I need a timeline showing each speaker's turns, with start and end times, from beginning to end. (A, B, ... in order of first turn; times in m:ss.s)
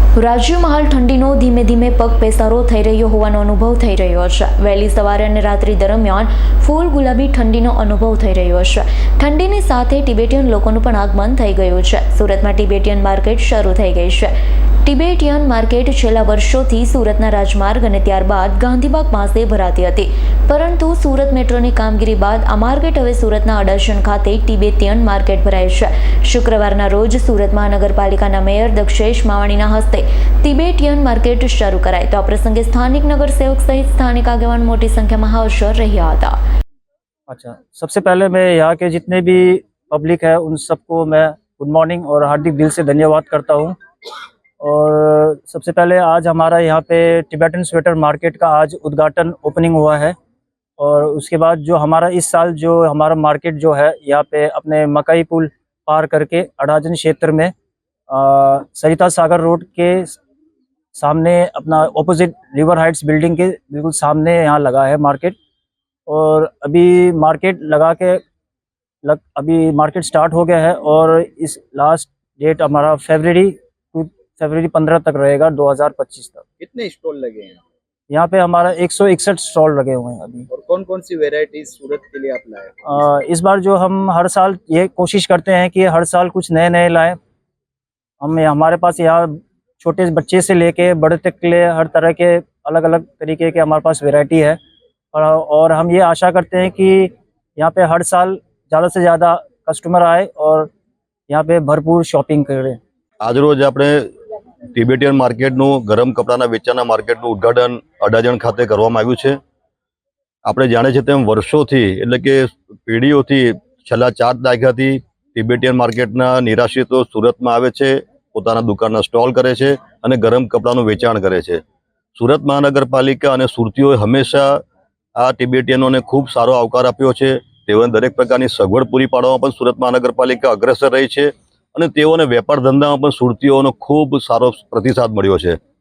0:00.2-0:14.3 A
0:14.8-0:36.4 A
0:37.3-0:43.8 B
0:44.6-0:50.1 B
0:50.8-0:57.5 B
0:58.1-1:00.2 B
1:00.9-1:05.4 B
1:06.1-1:08.2 B
1:09.0-1:16.4 B
1:16.6-1:17.6 C
1:18.1-1:20.5 B
1:20.5-1:22.8 C
1:22.8-1:27.2 B
1:28.2-1:34.6 B
1:35.1-1:40.7 B
1:41.3-1:42.8 B
1:43.2-1:44.1 D
1:44.7-1:49.4 D
1:50.5-2:01.6 D
2:02.2-2:04.6 D
2:05.2-2:15.6 D